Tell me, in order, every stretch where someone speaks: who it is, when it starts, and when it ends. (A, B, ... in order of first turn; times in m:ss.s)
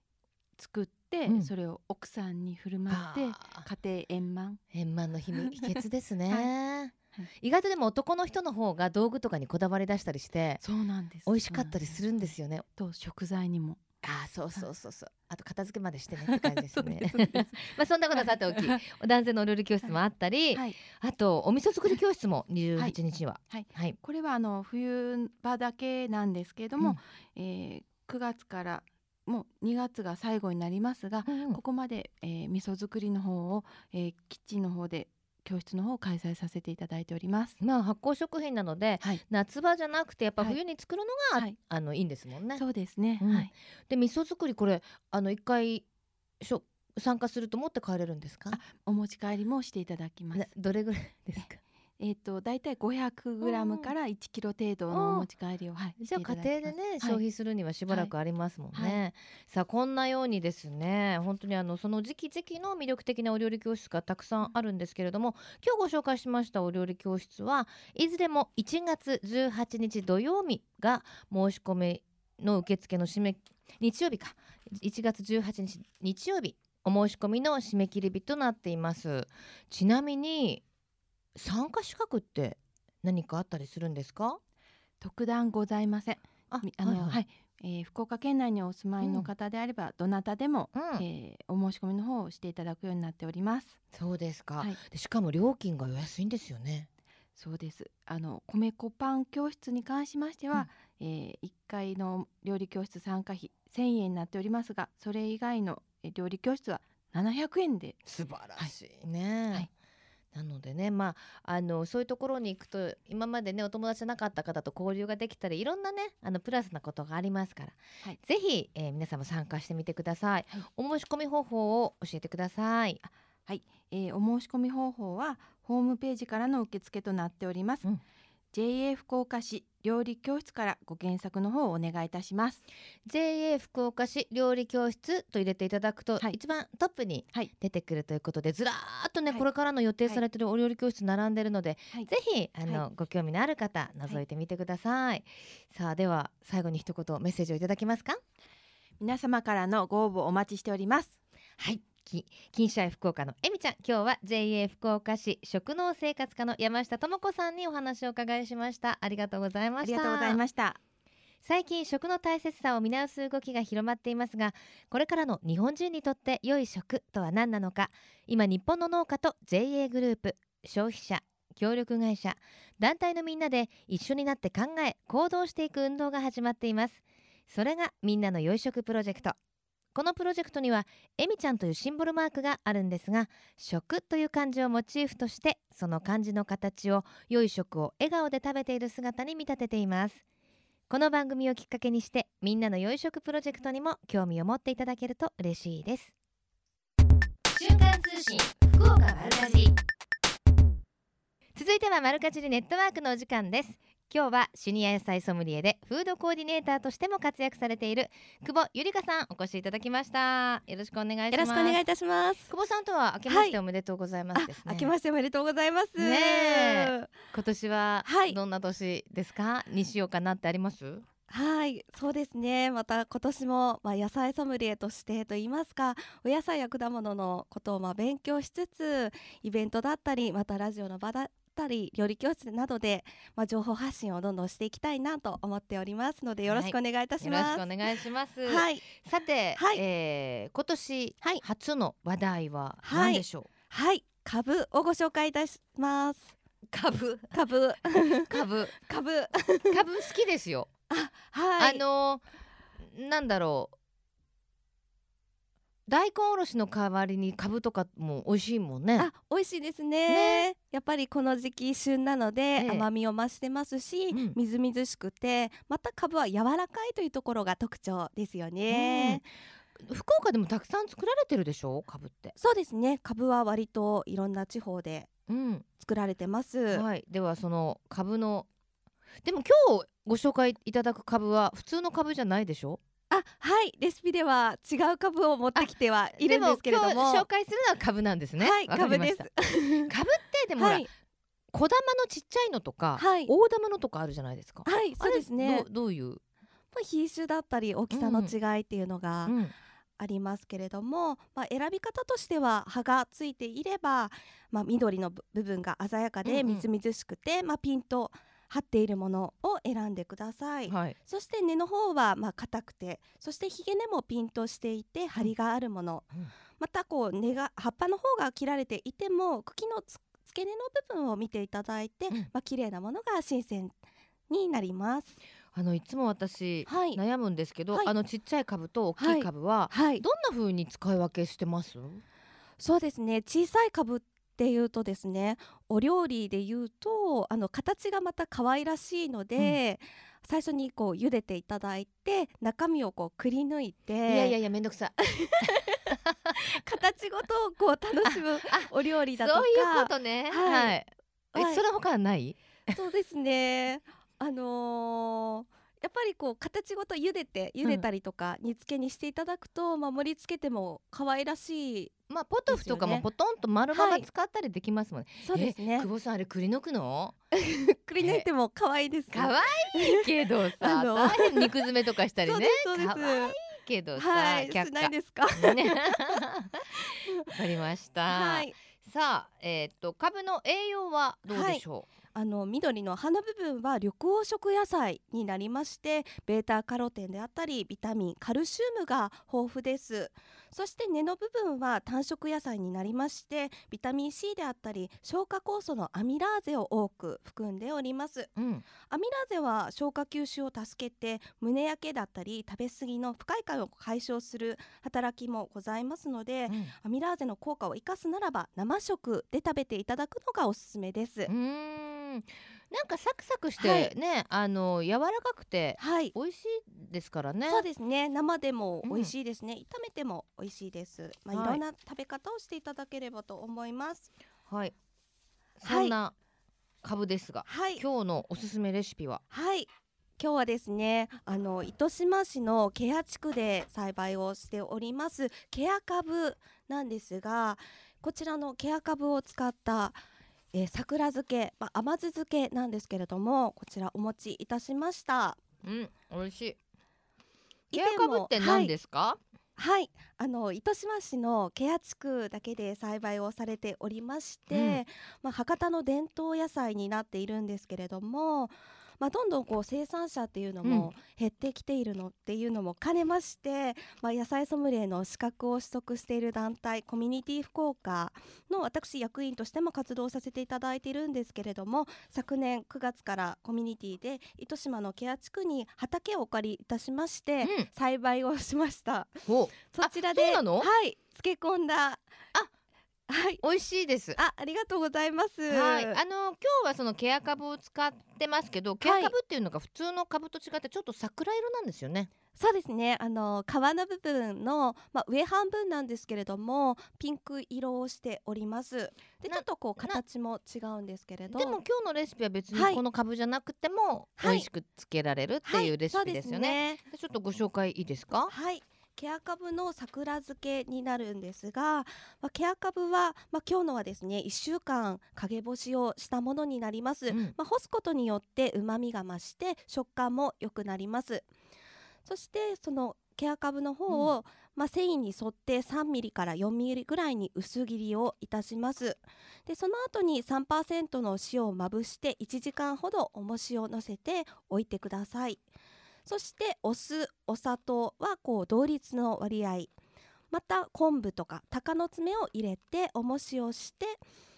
0:00.6-0:04.6 A
0:02.9-0:03.7 B
0:04.7-0:10.6 B
0:05.4-0:05.6 A
0:10.6-0:12.0 A
0:11.2-0:12.6 B
0:12.8-0:13.8 A
0:14.0-0:24.0 B
0:16.3-0:18.8 A
0:20.5-0:20.8 A
0:22.8-0:37.6 A
0:31.2-0:31.6 B
0:37.6-0:42.6 B
0:42.5-0:43.5 A
0:43.2-0:45.8 B
0:46.4-0:48.6 B
0:48.5-0:50.5 A
0:50.3-0:51.6 B
0:52.0-0:57.2 A
0:53.4-0:53.9 B
0:54.9-0:55.3 B
0:56.0-1:20.6 B
0:58.7-0:59.0 A
1:21.4-1:24.4 B
1:25.0-1:33.8 A
1:26.5-1:27.2 B
1:29.0-1:29.3 B
1:30.7-1:31.0 B
1:33.9-1:36.9 B
1:37.4-1:48.0 A
1:48.0-1:49.7 B
1:50.3-2:03.0 B
2:03.4-2:07.8 A
2:08.5-2:12.6 A
2:13.0-2:28.2 B
2:29.0-2:31.2 A
2:31.6-2:40.4 B
2:39.8-2:40.8 A
2:41.4-2:59.4 B
2:59.9-3:10.2 B
3:10.9-3:16.1 B
3:17.5-3:19.7 B
3:21.5-3:31.8 B
3:31.3-3:32.5 C
3:32.5-3:34.9 B
3:33.3-3:33.6 C
3:34.4-3:37.1 C
3:36.0-3:41.0 B
3:38.0-3:38.4 C
3:41.3-3:57.9 C
3:56.4-4:03.5 B
3:58.4-3:58.9 C
3:59.6-3:59.8 C
4:02.8-4:06.4 C
4:06.7-4:07.4 B
4:07.3-4:09.8 C
4:08.2-4:08.8 B
4:09.7-4:10.7 B
4:10.9-4:11.8 C
4:11.6-4:12.2 B
4:12.8-4:13.7 B
4:15.9-4:19.1 B
4:19.0-4:29.3 C
4:20.1-4:20.4 B
4:22.6-4:22.9 B
4:24.1-4:24.4 B
4:28.7-4:29.2 B
4:29.8-4:32.4 B
4:32.4-4:35.1 C
4:35.3-4:35.6 B
4:35.8-4:36.8 C
4:36.7-4:38.5 B
4:39.2-4:42.8 B
4:43.1-4:47.2 C
4:45.6-4:49.3 B
4:48.4-4:49.9 C
4:49.9-4:50.9 B
4:50.6-4:50.9 C
4:51.5-4:56.2 B
4:53.0-4:53.3 C
4:54.6-4:55.7 C
4:56.7-4:59.4 C
4:57.9-4:58.3 B
4:59.2-4:59.5 B
5:00.0-5:23.8 C
5:06.2-5:06.6 B
5:10.7-5:11.0 B
5:24.3-5:25.2 C
5:25.5-5:32.0 B
5:26.7-5:27.0 C
5:29.0-5:30.0 C
5:32.6-5:44.4 C
5:44.1-5:46.3 B
5:45.1-5:45.8 C
5:46.4-5:50.8 C
5:48.1-5:52.4 B
5:51.4-5:51.6 C
5:52.7-6:02.0 C
6:02.1-6:07.2 B
6:02.5-6:03.0 C
6:03.7-6:04.0 C
6:05.2-6:05.9 C
6:07.4-6:10.1 C
6:08.0-6:08.2 B
6:09.1-6:21.9 B
6:10.6-6:11.6 C
6:12.2-6:13.4 C
6:14.0-6:16.2 C
6:16.9-6:17.2 C
6:18.1-6:18.5 C
6:21.3-6:21.6 C
6:22.1-6:38.3 C
6:38.4-6:38.6 B
6:38.9-6:51.3 C
6:46.5-6:46.7 B
6:51.3-6:57.6 B
6:53.6-6:53.9 C
6:55.8-6:56.1 C
6:57.5-7:04.1 C
6:58.8-6:59.1 B
7:01.3-7:01.6 B
7:04.5-7:04.7 B
7:05.6-7:06.1 B
7:05.6-7:05.9 C
7:06.8-7:09.2 B
7:07.5-7:07.8 C
7:09.3-7:09.7 C
7:10.2-7:25.4 C
7:25.6-7:26.6 B
7:27.7-7:29.2 B
7:27.7-7:28.7 C
7:29.6-8:02.0 C
7:34.5-7:34.8 B
7:40.6-7:40.9 B
7:57.4-7:57.7 B
7:59.2-8:00.7 B
8:03.1-8:03.4 C
8:03.4-8:04.2 B
8:04.2-8:06.0 C
8:05.5-8:12.1 B
8:08.8-8:09.1 C
8:12.4-8:21.6 C
8:19.3-8:20.0 B
8:21.3-8:28.3 B
8:22.5-8:22.8 C
8:24.2-8:24.5 C
8:25.4-8:26.8 C
8:28.3-8:41.3 C
8:37.1-8:37.4 B
8:42.0-8:55.4 C
8:43.9-8:44.1 B
8:56.0-8:59.7 C
9:00.3-9:04.0 C